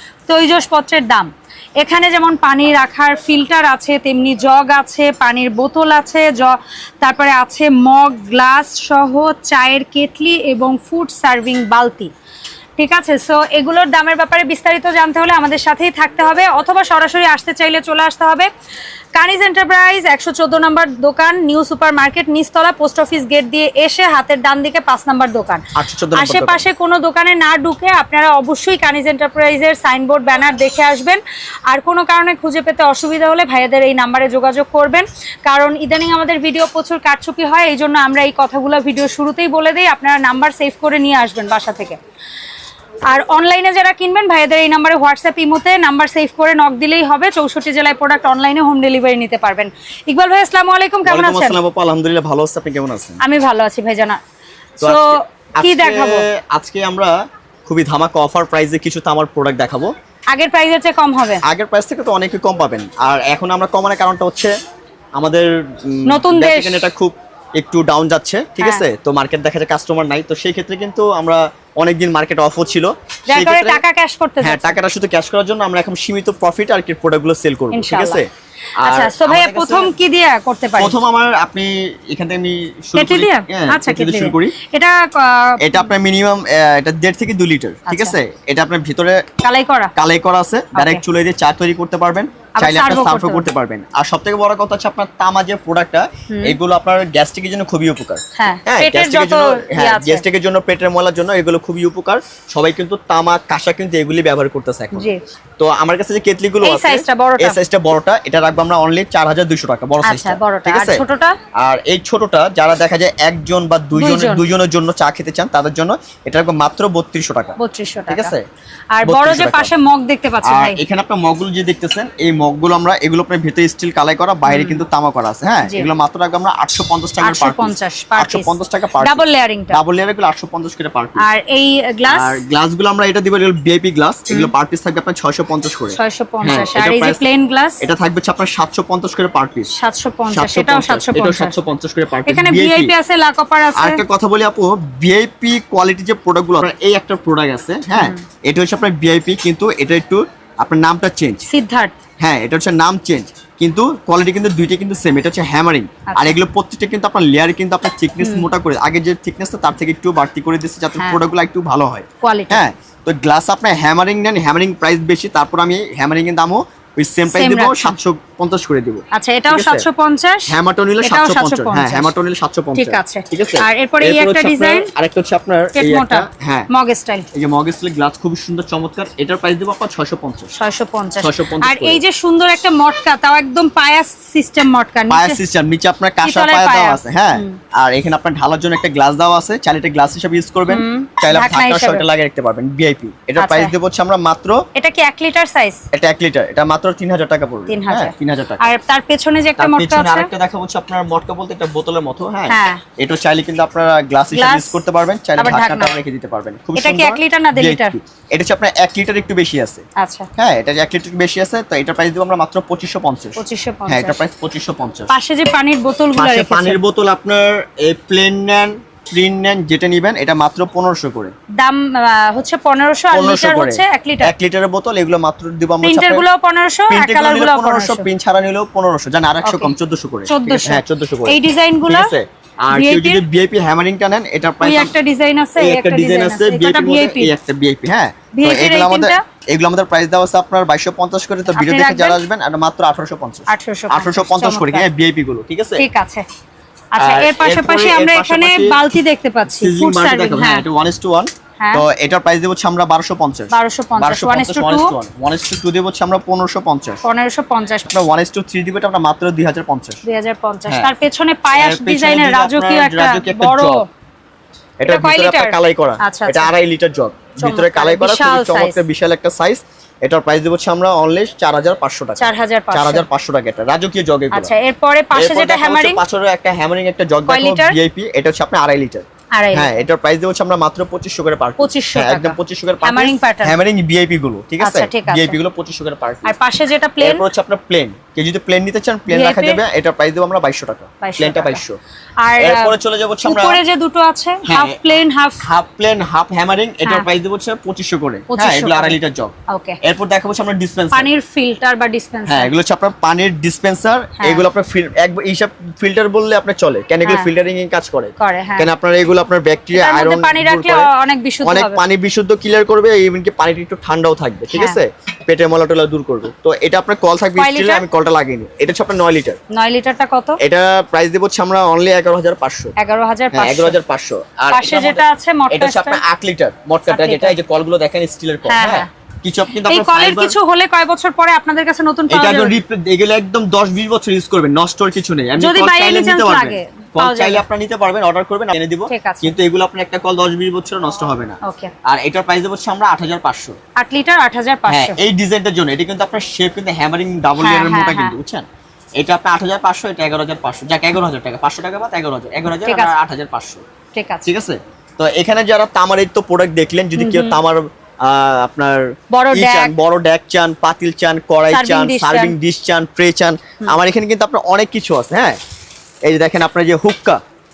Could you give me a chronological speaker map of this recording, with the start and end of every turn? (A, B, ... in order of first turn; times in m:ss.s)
0:00.3-0:12.1 A
0:12.8-0:18.5 A
0:19.2-0:42.0 A
0:25.8-0:26.6 B
0:43.1-0:51.6 A
0:51.0-0:53.2 B
0:53.2-0:54.2 A
0:54.8-0:59.9 B
0:54.8-0:56.2 A
1:00.3-1:01.4 A
1:01.4-1:04.5 B
1:05.2-1:13.8 B
1:06.1-1:06.9 A
1:08.6-1:08.9 A
1:13.3-1:14.8 A
1:14.4-1:18.3 B
1:17.7-1:18.2 A
1:18.8-1:19.9 B
1:18.8-1:21.0 A
1:20.8-1:24.6 B
1:22.9-1:25.9 A
1:25.6-1:29.2 B
1:27.9-1:28.1 A
1:29.4-1:29.9 A
1:30.0-1:51.0 B
1:30.7-1:31.0 A
1:32.6-1:33.5 A
1:36.3-1:36.6 A
1:38.4-1:40.2 A
1:44.9-1:45.2 A
1:46.6-1:47.6 A
1:50.0-1:51.4 A
1:51.6-1:57.6 B
1:53.9-1:54.4 A
1:57.6-1:58.3 A
1:58.1-1:58.4 B
1:58.9-2:00.8 A
1:59.0-1:59.7 B
2:00.4-2:11.2 B
2:04.5-2:04.8 A
2:07.2-2:09.8 A
2:11.2-2:12.4 A
2:12.0-2:17.2 B
2:15.9-2:17.8 A
2:17.8-2:19.7 B
2:19.7-2:21.6 A
2:20.3-2:22.9 B
2:22.2-2:24.0 A
2:23.8-2:31.5 B
2:27.9-2:28.2 A
2:31.4-2:31.9 A
2:32.2-2:49.8 B
2:36.1-2:36.4 A
2:38.2-2:38.5 A
2:41.0-2:41.2 A
2:42.2-2:42.6 A
2:47.3-2:48.0 A
2:49.1-2:52.1 A
2:50.5-2:56.7 B
2:52.7-2:54.9 A
2:55.8-2:57.2 A
2:57.3-3:00.5 B
3:00.6-3:05.4 A
3:01.2-3:02.0 B
3:05.1-3:14.6 B
3:06.2-3:07.6 A
3:10.7-3:12.0 A
3:13.4-3:13.7 A
3:14.7-3:15.8 A
3:15.9-3:18.7 B
3:17.7-3:20.3 A
3:19.6-3:29.8 B
3:22.5-3:22.8 A
3:24.3-3:24.8 A
3:25.4-3:26.0 A
3:26.8-3:28.0 A
3:30.0-3:30.3 A
3:30.4-3:35.1 B
3:33.4-3:34.2 A
3:35.1-3:36.8 A
3:36.2-3:41.3 B
3:41.6-3:44.3 A
3:43.1-3:46.2 B
3:45.8-3:48.1 A
3:46.9-3:54.9 B
3:49.4-3:49.7 A
3:50.3-3:52.1 A
3:52.7-3:53.2 A
3:54.6-3:57.3 A
3:55.6-4:05.8 B
3:58.3-3:59.2 A
4:01.5-4:02.2 A
4:03.5-4:04.8 A
4:05.8-4:06.2 A
4:06.9-4:10.6 A
4:07.0-4:08.8 B
4:09.5-4:17.0 B
4:11.6-4:11.8 A
4:13.5-4:14.9 A
4:17.0-4:18.0 A
4:17.9-4:20.0 B
4:20.0-4:23.9 A
4:21.5-4:23.8 B
4:24.8-4:34.5 B
4:24.9-4:26.5 A
4:27.4-4:28.8 A
4:32.2-4:33.0 A
4:34.3-4:36.0 A
4:35.1-4:46.3 B
4:37.3-4:37.8 A
4:39.3-4:39.8 A
4:41.6-4:43.6 A
4:44.6-4:45.4 A
4:46.2-4:47.2 A
4:47.0-4:51.8 B
4:49.1-4:49.6 A
4:51.0-4:51.6 A
4:52.2-4:55.4 A
4:52.4-4:53.6 B
4:54.4-5:01.1 B
4:58.3-4:59.8 A
5:00.9-5:02.5 A
5:02.3-5:10.9 B
5:04.2-5:04.4 A
5:07.0-5:07.3 A
5:08.2-5:08.7 A
5:09.7-5:11.8 A
5:11.4-5:19.4 B
5:14.5-5:14.8 A
5:17.4-5:17.8 A
5:19.5-5:20.4 A
5:20.4-5:22.7 B
5:22.8-5:23.8 A
5:23.3-5:30.4 B
5:24.5-5:26.0 A
5:26.9-5:27.4 A
5:28.5-5:28.9 A
5:29.6-5:32.6 A
5:32.1-5:43.6 B
5:35.4-5:37.4 A
5:38.9-5:39.3 A
5:41.4-5:41.7 A
5:43.8-5:45.0 A
5:44.7-5:48.4 B
5:47.4-5:48.1 A
5:49.0-5:53.6 B
5:52.6-5:52.9 A
5:53.9-5:54.3 A
5:54.2-6:05.4 B
5:57.0-5:57.4 A
5:59.1-5:59.7 A
6:01.5-6:02.3 A
6:06.0-6:07.2 B